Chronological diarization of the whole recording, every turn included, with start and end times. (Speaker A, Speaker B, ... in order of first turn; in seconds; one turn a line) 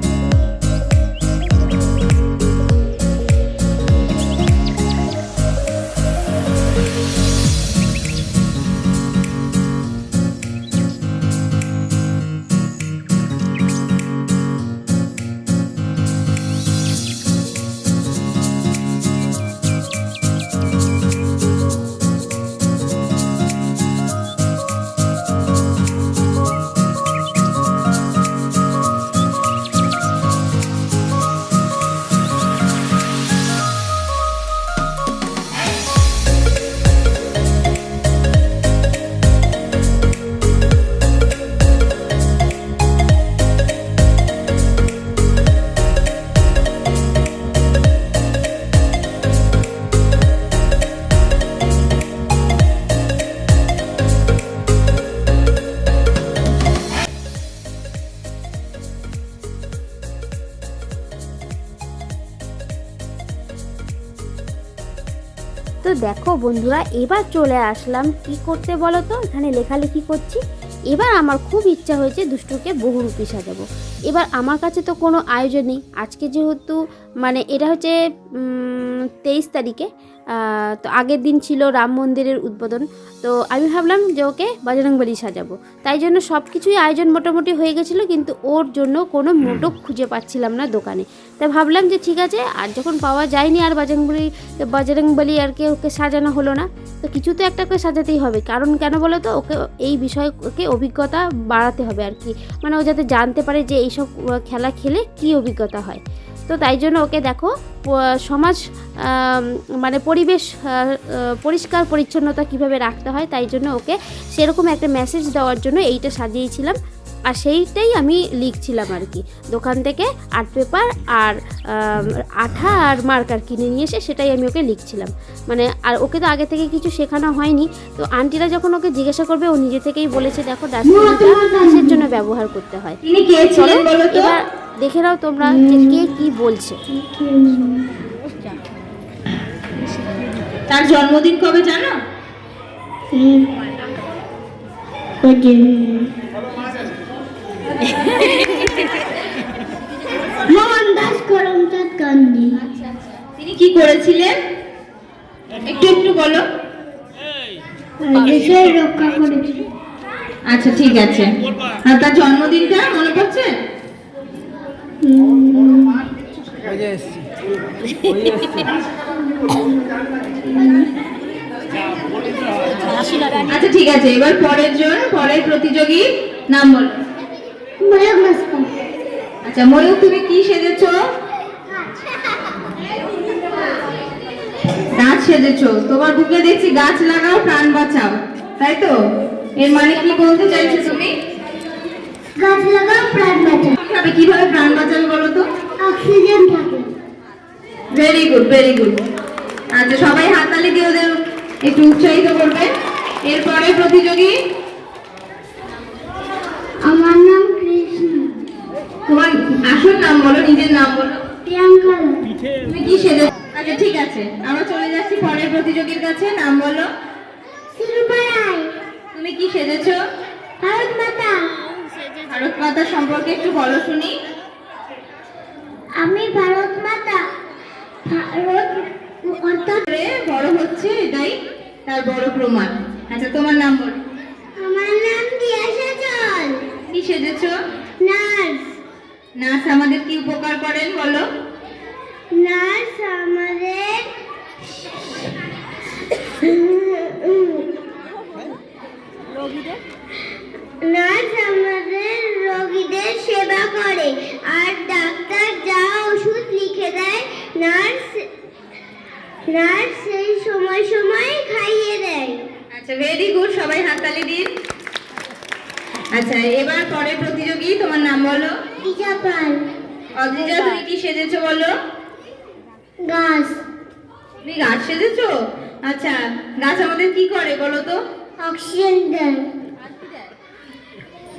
Speaker A: 65.8-79.9
Speaker A: 80.4-107.5
Speaker A: 108.2-116.8
Speaker A: 117.3-136.8
Speaker B: 130.8-132.0
Speaker C: 133.0-134.3
Speaker B: 135.4-136.1
Speaker B: 136.9-137.9
Speaker C: 140.7-142.0
Speaker B: 143.1-143.5
Speaker B: 145.2-146.2
Speaker B: 150.4-152.6
Speaker C: 153.4-154.4
Speaker C: 155.7-156.4
Speaker B: 158.0-159.6
Speaker C: 160.5-161.3
Speaker C: 161.8-163.6
Speaker B: 165.0-166.1
Speaker B: 169.3-170.9
Speaker C: 173.4-176.9
Speaker B: 177.8-178.7
Speaker C: 179.4-181.0
Speaker C: 184.9-189.0
Speaker C: 189.6-191.2
Speaker B: 192.4-193.8
Speaker C: 193.8-195.5
Speaker B: 195.8-196.9
Speaker C: 197.9-199.0
Speaker C: 199.7-202.7
Speaker C: 203.2-204.4
Speaker B: 206.8-208.4
Speaker C: 209.1-211.2
Speaker B: 211.4-212.3
Speaker C: 212.7-216.9
Speaker B: 217.8-218.7
Speaker C: 219.1-220.0
Speaker B: 220.6-221.6
Speaker C: 222.3-224.2
Speaker B: 226.0-227.3
Speaker B: 228.1-229.9
Speaker C: 229.8-234.0
Speaker B: 234.6-236.7
Speaker C: 236.9-237.6
Speaker B: 238.0-238.8
Speaker C: 239.4-241.2
Speaker B: 242.3-244.0
Speaker B: 244.6-245.3
Speaker B: 246.1-247.7
Speaker B: 250.8-258.3
Speaker B: 259.5-262.5
Speaker C: 262.7-264.5
Speaker C: 266.1-268.6
Speaker B: 268.8-269.6
Speaker C: 270.2-271.7
Speaker B: 273.0-273.6
Speaker C: 274.4-278.0
Speaker B: 278.4-279.5